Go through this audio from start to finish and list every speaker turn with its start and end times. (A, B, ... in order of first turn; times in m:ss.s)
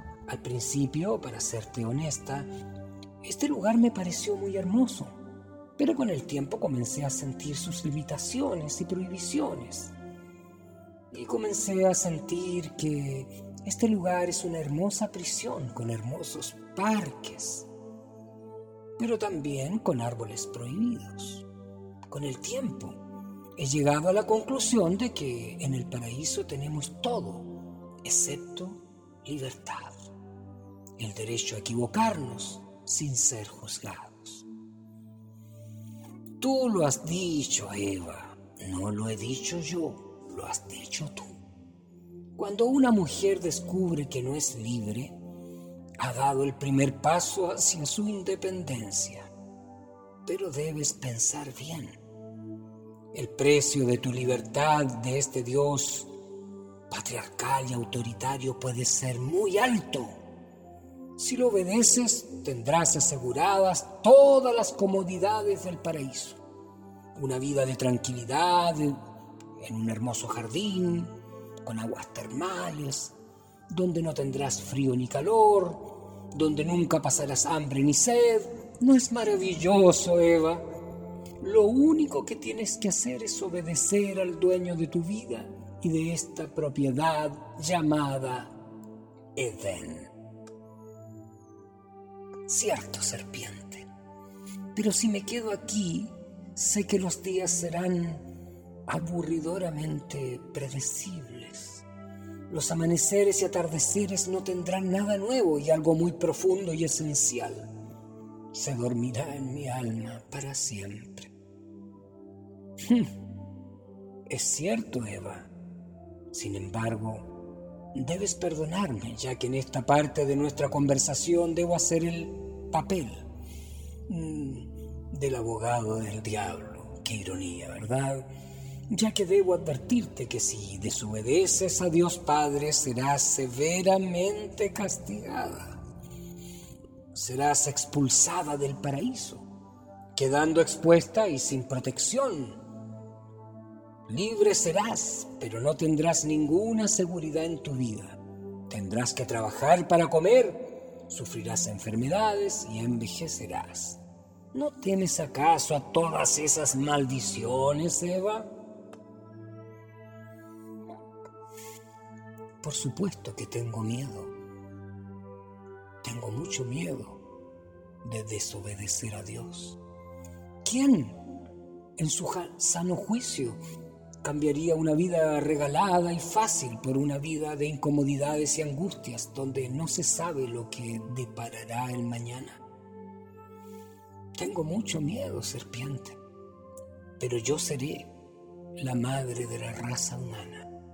0:00.3-0:02.5 A
0:03.2-0:05.1 A
0:05.8-0:09.9 A
0:11.1-0:17.7 A
0:19.0-0:21.4 A
0:22.1-0:23.0 A
0:23.6-0:30.0 A
0:31.0-0:34.4 A
0:36.4-0:41.3 A
0:42.4-0:45.2 A
0:46.0-0:49.3 A
0:50.2-0:52.0 A
0:53.1-0:56.1 A
0:56.9-1:00.2 A
1:01.2-1:06.4 A
1:07.2-1:09.0 A
1:09.6-1:11.1 A
1:11.6-1:13.1 A
1:13.7-1:20.6 A
1:21.4-1:28.5 A
1:29.4-1:30.1 A
1:32.4-1:33.9 A
1:34.7-1:38.3 A
1:38.9-1:41.8 A
1:42.5-1:47.7 A
1:48.5-1:51.3 A
1:54.3-1:55.5 A
1:56.3-1:57.3 A
1:57.9-2:03.3 A
2:04.1-2:08.3 A
2:08.9-2:15.8 A
2:17.1-2:19.4 A
2:20.1-2:22.6 A
2:24.1-2:34.0 A
2:34.5-2:38.5 A
2:42.6-2:44.3 A
2:46.0-2:47.2 A
2:48.0-2:49.8 A
2:50.6-2:51.2 A
2:52.0-2:53.6 A
2:54.2-3:02.6 A
3:04.3-3:06.2 A
3:07.2-3:08.1 A
3:08.8-3:10.7 A